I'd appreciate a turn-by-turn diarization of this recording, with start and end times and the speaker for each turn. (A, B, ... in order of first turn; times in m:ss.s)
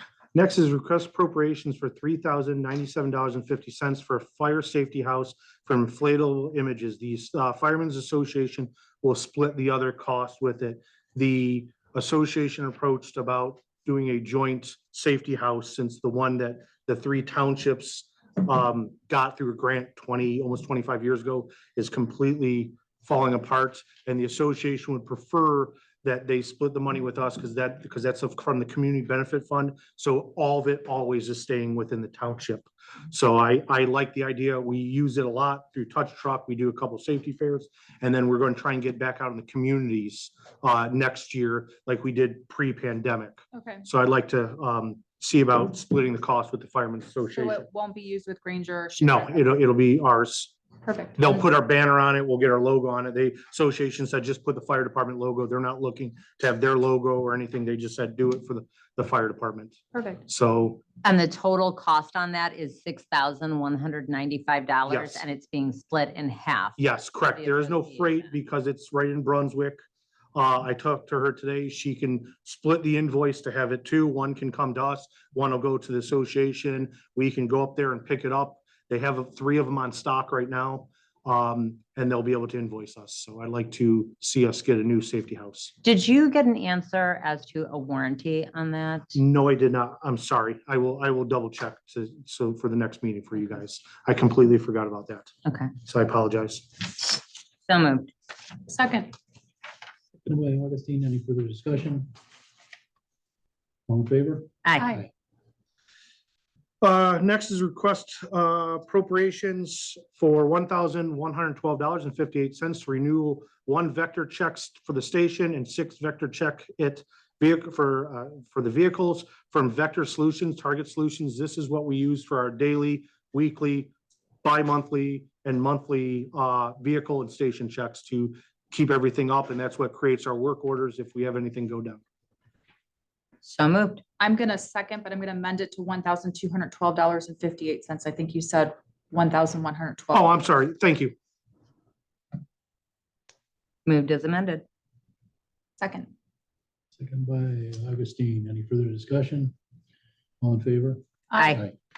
0:00.3-0:47.6 A
0:43.5-0:43.9 B
0:47.3-0:49.6 B
0:49.0-0:50.5 A
0:50.8-0:51.4 B
0:51.2-1:00.8 A
0:59.9-1:00.2 B
1:01.0-1:08.3 C
1:04.9-1:05.2 A
1:06.8-1:09.8 A
1:10.4-1:25.7 A
1:25.8-1:29.2 C
1:29.2-1:35.3 A
1:35.4-1:35.7 C
1:35.8-1:36.7 A
1:37.7-1:38.1 C
1:38.7-1:39.1 B
1:40.3-1:42.1 D
1:43.9-1:45.1 D
1:44.6-1:44.9 C
1:44.8-1:45.1 B
1:46.8-2:03.9 A
2:04.4-2:12.0 A
2:13.4-2:14.0 C
2:14.2-2:20.3 B
2:20.1-2:21.1 A
2:23.9-2:24.6 C
2:25.8-2:26.1 B
2:27.0-2:29.5 D
2:30.4-2:31.7 D
2:31.3-2:31.6 B
2:31.4-2:31.6 C